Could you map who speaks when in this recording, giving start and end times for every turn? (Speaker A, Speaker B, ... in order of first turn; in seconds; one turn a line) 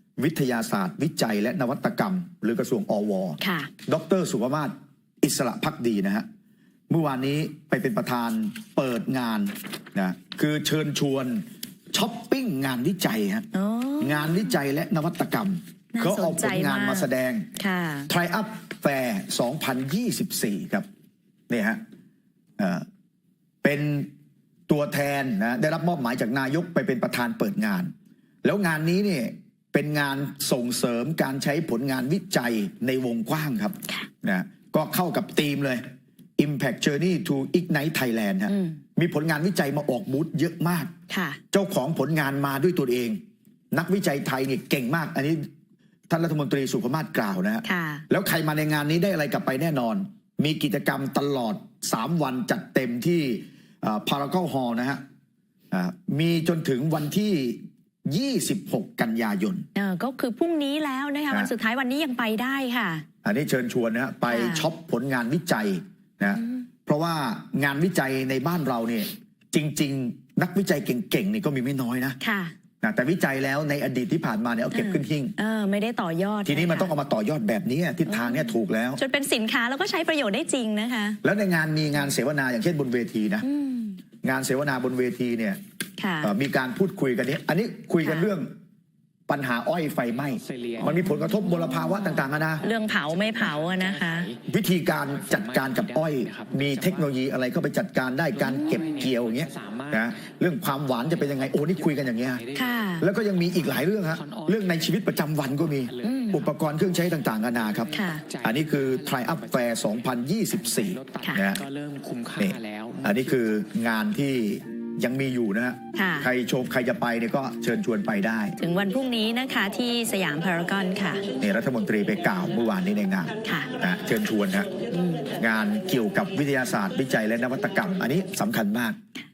Speaker A: 0.2-6.3
Speaker B: 3.4-3.7
Speaker A: 6.9-13.5
Speaker B: 13.5-14.5
Speaker A: 14.0-17.5
Speaker B: 15.9-18.1
Speaker A: 18.1-20.9
Speaker A: 21.5-21.8
Speaker A: 22.6-22.9
Speaker A: 23.6-24.1
Speaker A: 24.7-35.8
Speaker A: 36.4-40.9
Speaker B: 38.5-38.8
Speaker B: 41.1-41.4
Speaker A: 41.5-43.2
Speaker A: 43.7-45.5
Speaker A: 46.1-55.0
Speaker B: 47.6-48.0
Speaker A: 55.7-59.7
Speaker B: 59.8-63.0
Speaker A: 63.2-72.2
Speaker B: 64.3-64.7
Speaker B: 72.2-72.5
Speaker A: 72.8-75.3
Speaker B: 74.7-76.9
Speaker A: 76.5-79.0
Speaker B: 78.1-81.2
Speaker A: 81.2-83.5
Speaker B: 83.5-84.0
Speaker A: 84.2-85.6
Speaker B: 86.0-86.3
Speaker A: 86.2-88.5
Speaker B: 88.0-88.3
Speaker A: 89.3-92.7
Speaker C: 90.3-91.0
Speaker B: 90.8-94.3
Speaker C: 92.6-94.4
Speaker A: 94.5-102.5
Speaker C: 95.1-97.1
Speaker C: 98.3-100.1
Speaker C: 101.6-105.1
Speaker B: 102.5-103.1
Speaker A: 103.0-111.6
Speaker C: 105.8-113.4
Speaker B: 106.0-106.4
Speaker B: 107.9-108.2
Speaker A: 112.4-118.6
Speaker B: 115.9-116.3
Speaker B: 118.6-121.2
Speaker A: 121.4-124.7
Speaker B: 123.4-123.7
Speaker B: 124.9-125.3
Speaker A: 125.4-129.0